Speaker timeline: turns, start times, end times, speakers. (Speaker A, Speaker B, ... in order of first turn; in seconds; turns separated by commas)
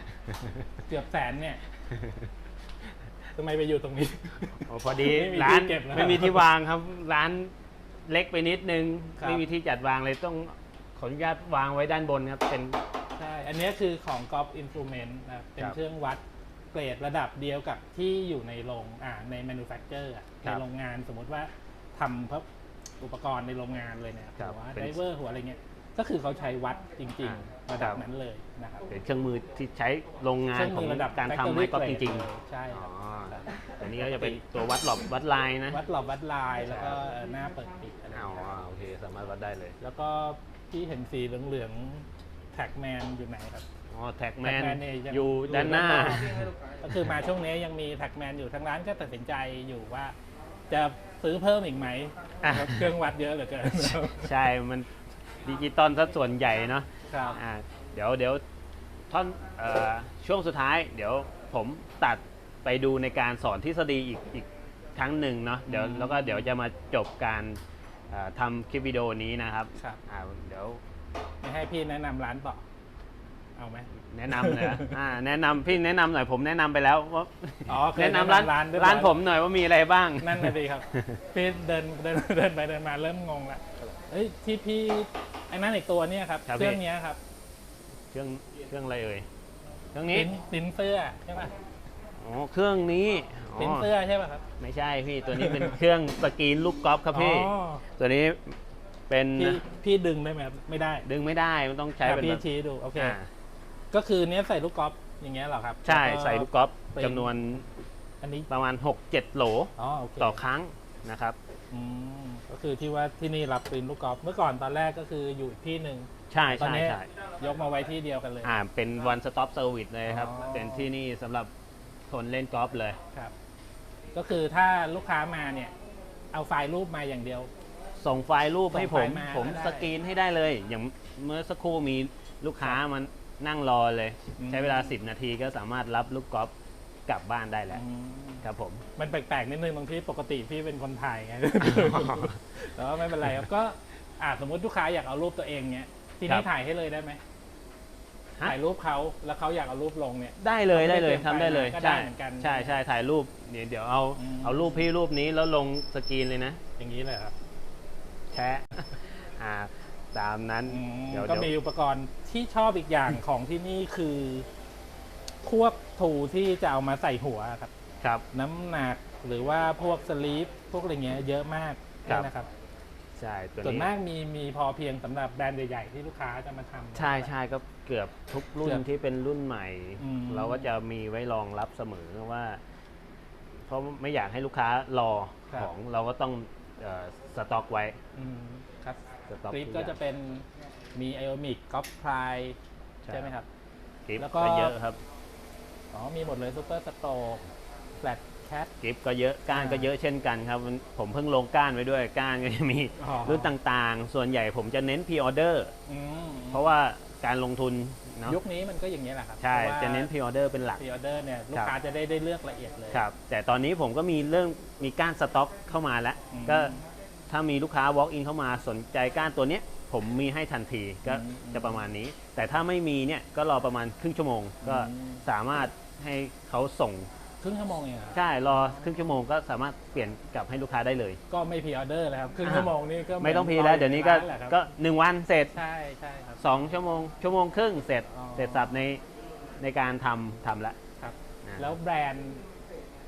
Speaker A: 0.8-1.6, Speaker A: 3.3-6.5, Speaker B: 4.7-7.5, Speaker B: 8.1-12.8, Speaker A: 13.2-16.2, Speaker A: 16.7-22.5, Speaker A: 23.0-28.9, Speaker B: 24.4-25.0, Speaker B: 27.2-28.0, Speaker B: 28.9-35.8, Speaker A: 30.5-33.4, Speaker A: 34.0-34.4, Speaker A: 35.7-38.3, Speaker B: 36.6-37.0, Speaker B: 38.1-39.8, Speaker A: 39.8-43.6, Speaker B: 43.9-46.5, Speaker A: 44.4-50.1, Speaker A: 50.7-54.3, Speaker B: 52.4-52.9, Speaker B: 54.0-58.4, Speaker A: 57.1-57.4, Speaker B: 59.1-70.8, Speaker A: 65.7-66.5, Speaker A: 71.4-72.6, Speaker A: 73.6-75.0, Speaker B: 74.0-81.2, Speaker A: 77.7-79.2, Speaker A: 80.2-87.2, Speaker B: 86.5-86.8, Speaker B: 88.1-89.3, Speaker B: 89.9-90.3, Speaker A: 90.1-91.5, Speaker B: 92.2-93.9, Speaker A: 93.5-94.4, Speaker B: 94.6-99.6, Speaker A: 95.3-95.8, Speaker A: 97.1-97.8, Speaker A: 99.3-101.0, Speaker B: 101.0-102.4, Speaker A: 102.0-103.2, Speaker B: 103.0-103.3, Speaker A: 103.9-107.3, Speaker B: 105.8-107.7, Speaker A: 108.2-108.5, Speaker B: 108.5-111.4, Speaker A: 109.8-110.4, Speaker A: 111.7-118.5, Speaker B: 116.3-117.1, Speaker B: 118.4-121.5, Speaker A: 120.1-120.9, Speaker B: 122.1-123.0, Speaker A: 124.1-125.7, Speaker A: 126.3-127.5, Speaker B: 128.0-136.5, Speaker A: 128.7-129.9, Speaker A: 134.4-134.9, Speaker B: 137.1-137.8, Speaker A: 137.7-138.5, Speaker B: 138.4-138.8, Speaker A: 139.0-147.2, Speaker B: 141.6-142.3, Speaker A: 148.4-152.7, Speaker B: 150.4-156.6, Speaker A: 154.2-154.9, Speaker A: 156.8-157.3, Speaker B: 158.3-161.5, Speaker A: 160.7-164.5, Speaker A: 165.4-167.7, Speaker A: 168.3-172.5, Speaker B: 173.2-173.9, Speaker A: 173.6-177.3, Speaker B: 176.9-182.6, Speaker A: 180.0-180.7, Speaker B: 183.7-188.0, Speaker A: 188.2-192.6, Speaker B: 189.3-190.0, Speaker B: 193.0-193.3, Speaker A: 193.1-193.5, Speaker B: 194.1-195.0, Speaker A: 194.2-194.8, Speaker A: 195.9-197.4, Speaker A: 198.0-198.7, Speaker B: 198.8-205.7, Speaker A: 199.5-199.9, Speaker A: 203.0-203.5, Speaker A: 205.9-206.6, Speaker B: 206.5-208.4, Speaker A: 208.3-210.1, Speaker B: 209.4-210.8, Speaker A: 210.8-213.0, Speaker B: 212.9-216.8, Speaker A: 216.3-216.8, Speaker B: 217.3-227.1, Speaker A: 221.1-221.8, Speaker A: 224.6-225.2, Speaker A: 227.4-229.0, Speaker B: 228.1-231.2, Speaker A: 231.3-234.6, Speaker B: 232.4-235.6, Speaker A: 235.5-236.5, Speaker B: 236.4-239.0, Speaker A: 238.1-238.7, Speaker B: 239.6-240.8, Speaker A: 241.0-242.4, Speaker B: 241.4-241.7